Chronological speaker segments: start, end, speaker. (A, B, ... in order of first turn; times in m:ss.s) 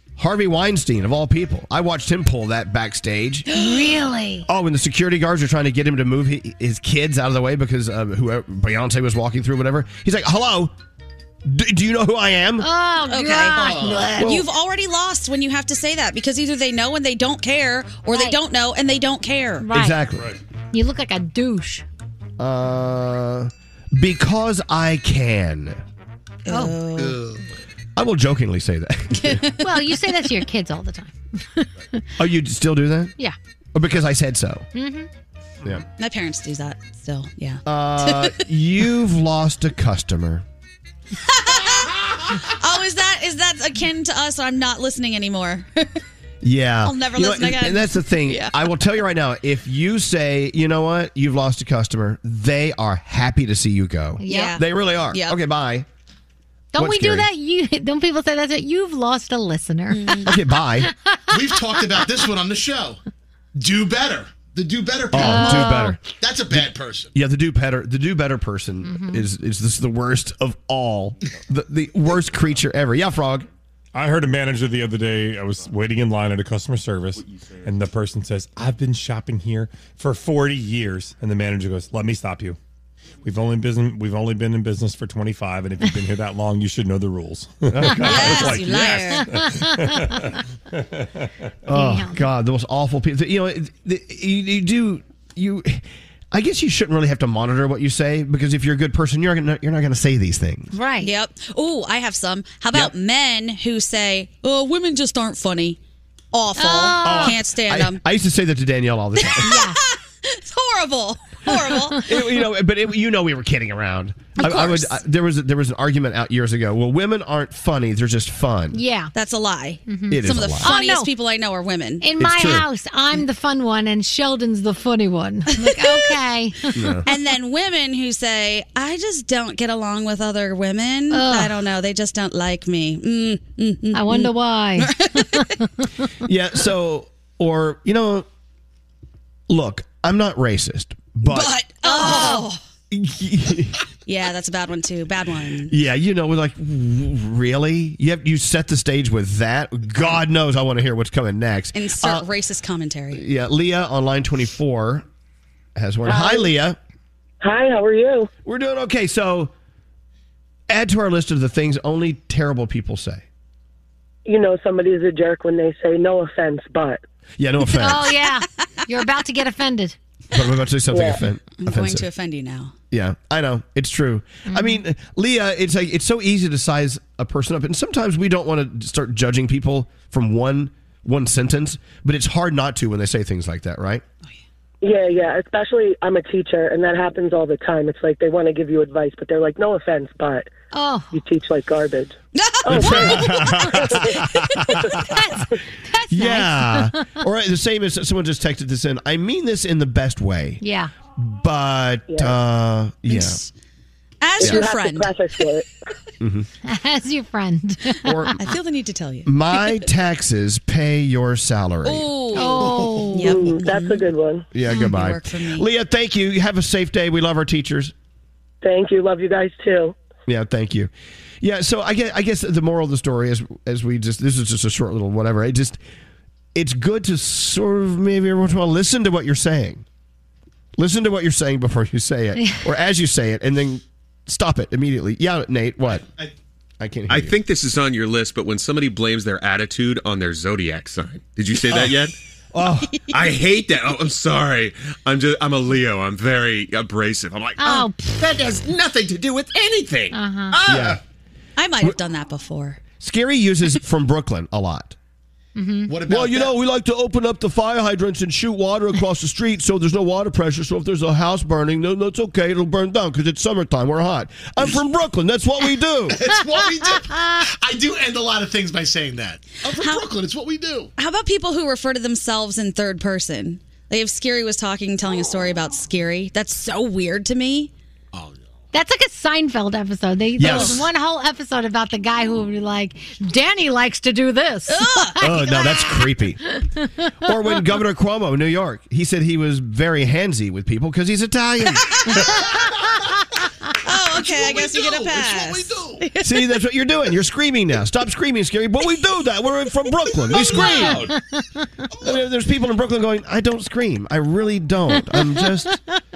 0:00.2-0:03.5 A
0:03.5-0:04.4 B
0:04.5-0:10.7 A
0:11.4-0:12.7 A
0:12.6-0:14.3 B
0:13.1-0:19.7 C
0:13.6-0:14.1 D
0:14.2-0:14.4 A
0:19.6-0:20.0 B
0:19.7-0:20.3 A
0:20.7-0:21.8 B
0:22.4-0:25.8 A
0:26.4-0:27.2 C
0:26.5-0:26.8 B
0:28.0-0:29.4 A
0:29.2-0:29.6 C
0:29.6-0:32.0 B
0:32.2-0:33.1 A
0:33.7-0:34.6 A
0:34.7-0:35.1 B
0:36.0-0:38.4 C
0:37.6-0:40.4 A
0:41.3-0:46.0 C
0:46.4-0:55.8 A
0:46.8-0:48.7 C
0:54.2-0:54.6 B
0:54.3-0:55.4 C
0:56.7-1:00.3 B
0:56.8-0:57.3 A
0:59.9-1:00.3 C
1:00.2-1:00.9 A
1:00.8-1:02.0 B
1:01.3-1:03.0 D
1:03.5-1:07.1 D
1:05.1-1:13.5 A
1:05.2-1:06.0 B
1:08.8-1:09.2 B
1:13.9-1:22.6 E
1:23.2-1:30.4 E
1:27.7-1:28.8 A
1:28.0-1:29.4 C
1:29.2-1:30.4 B
1:31.6-1:40.7 A
1:31.7-1:32.3 B
1:40.7-1:41.1 B
1:41.0-1:45.8 C
1:46.3-1:48.0 C
1:46.6-1:47.3 B
1:47.0-1:49.6 A
1:49.2-1:52.0 C
1:49.4-1:49.8 B
1:51.5-1:52.0 B
1:52.0-1:58.8 A
1:54.4-1:55.0 C
1:58.7-1:59.1 B
1:59.1-2:02.0 C
1:59.9-2:01.1 B
2:00.1-2:00.7 A
2:02.0-2:06.7 B
2:02.2-2:02.6 A
2:05.6-2:06.2 C
2:06.7-2:07.0 A
2:07.0-2:15.4 C
2:11.1-2:11.6 B
2:13.9-2:16.0 B
2:16.2-2:18.2 A
2:19.5-2:23.8 A
2:21.2-2:22.6 C
2:24.0-2:25.7 C
2:25.7-2:32.2 A
2:31.7-2:33.2 C
2:33.1-2:35.0 A
2:35.8-2:36.8 A
2:36.0-2:36.5 F
2:37.4-2:38.3 F
2:38.4-2:39.5 A
2:40.7-2:43.2 A
2:44.2-2:47.0 F
2:47.4-2:48.1 A
2:47.8-2:50.0 B
2:50.3-2:52.1 A
2:50.9-2:51.2 F
2:51.6-2:52.7 C
2:52.9-3:04.0 A
2:54.5-2:54.8 B
3:04.8-3:10.5 F
3:10.7-3:11.2 B
3:11.1-3:13.2 F
3:12.4-3:14.6 C
3:12.7-3:14.0 A
3:12.8-3:14.0 B
3:15.0-3:17.2 B
3:16.1-3:20.6 A
3:20.6-3:20.9 B
3:21.2-3:23.4 A
3:22.1-3:22.4 F
3:23.1-3:23.5 C
3:24.2-3:25.5 C
3:24.4-3:25.6 F
3:26.2-3:26.5 A
3:26.6-3:28.3 B
3:28.0-3:28.3 A
3:28.4-3:29.3 C
3:29.2-3:32.1 A
3:31.8-3:34.0 C
3:32.3-3:33.4 B
3:33.2-3:34.5 F
3:34.5-3:37.9 A
3:34.6-3:35.7 C
3:38.6-3:39.9 F
3:40.3-3:45.8 A
3:46.5-3:49.8 A
3:50.8-3:56.0 A
3:56.8-3:57.4 A
3:57.1-4:02.1 G
4:01.7-4:01.9 A
4:02.5-4:03.0 A
4:03.1-4:10.9 G
4:07.6-4:08.1 B
4:10.1-4:10.6 B
4:10.7-4:11.0 A
4:11.6-4:12.8 C
4:13.0-4:15.0 A
4:15.6-4:15.9 B
4:15.9-4:16.5 D
4:16.1-4:26.2 A
4:26.1-4:30.9 D
4:29.8-4:30.0 C
4:31.0-4:37.7 C
4:38.7-4:45.9 B
4:40.4-4:40.8 A
4:40.4-4:40.8 C
4:44.7-4:45.2 C
4:45.2-4:46.4 A
4:46.6-4:47.1 B
4:47.2-4:52.1 A
4:51.6-4:52.0 C
4:53.8-4:56.5 C
4:54.1-4:56.0 D
4:56.2-5:01.1 A
5:00.5-5:01.4 B
5:02.0-5:05.8 A
5:05.2-5:05.4 B